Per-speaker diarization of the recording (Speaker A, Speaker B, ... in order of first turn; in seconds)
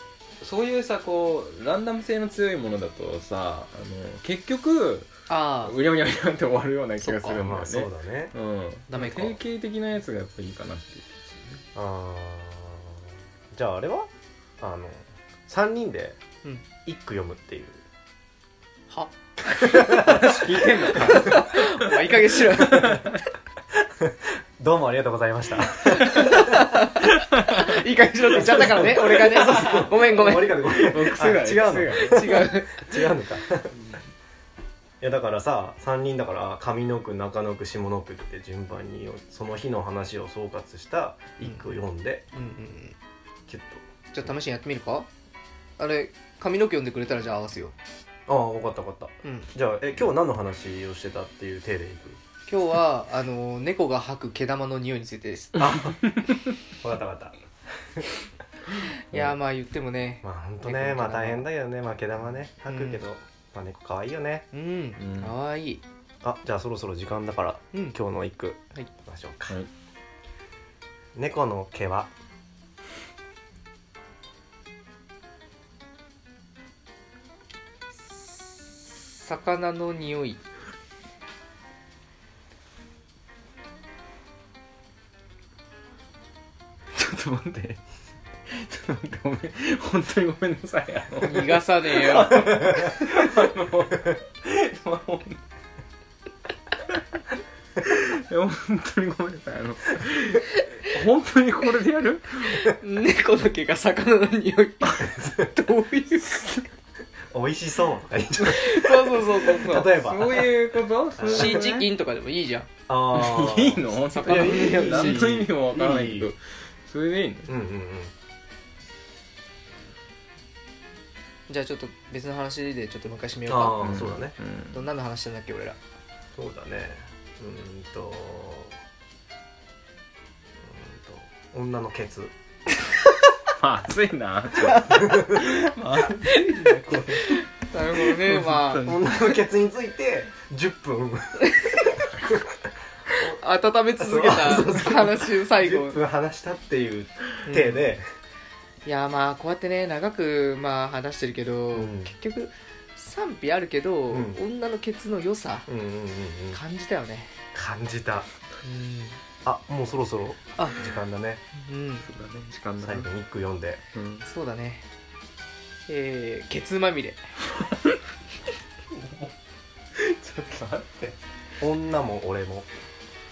Speaker A: 0.4-5.1, 5.6-11.6, 19.6-22.0, 22.7-23.1, 29.1-29.9, 30.6-32.5, 55.8-56.4, 65.0-65.3, 87.0-87.8, 88.5-95.4, 97.8-102.7, 109.8-111.9, 113.1-117.5, 123.8-124.8, 133.6-139.4, 162.0-163.1, 163.9-164.3, 168.9-169.3, 170.0-171.2
Speaker B: 5.3-5.8, 7.0-7.4, 8.9-9.4, 18.9-23.1, 25.9-31.0, 32.0-33.2, 41.4-41.8, 42.3-43.0, 44.1-45.1, 45.8-47.8, 49.2-49.5, 52.5-55.7, 59.1-61.5, 62.7-63.0, 64.5-65.8, 78.3-80.4, 91.2-92.7, 102.5-106.5, 108.4-110.0, 111.2-112.7, 114.1-115.5, 121.5-124.1, 124.7-125.8, 137.2-138.9, 141.5-142.0, 143.2-146.0, 147.5-147.9, 148.8-155.7, 156.5-157.4, 158.6-159.2, 160.6-160.9, 161.5-162.1, 164.2-164.9, 165.9-167.2
Speaker C: 7.3-8.3, 11.8-16.2, 16.9-17.8, 19.6-20.3, 24.0-26.8, 28.3-33.8, 35.0-42.2, 43.5-43.8, 48.3-52.2, 55.6-56.0, 56.8-58.1, 60.2-64.5, 66.2-69.6, 71.2-72.1, 105.2-105.5, 107.3-110.5, 111.2-111.7, 112.9-116.3, 117.5-118.1, 123.5-124.3, 126.3-128.8, 130.6-132.3, 138.8-142.4, 144.0-148.0, 151.8-152.1, 154.1-154.4, 155.7-156.6, 157.5-158.3, 159.4-161.4, 162.8-163.8, 171.6-172.7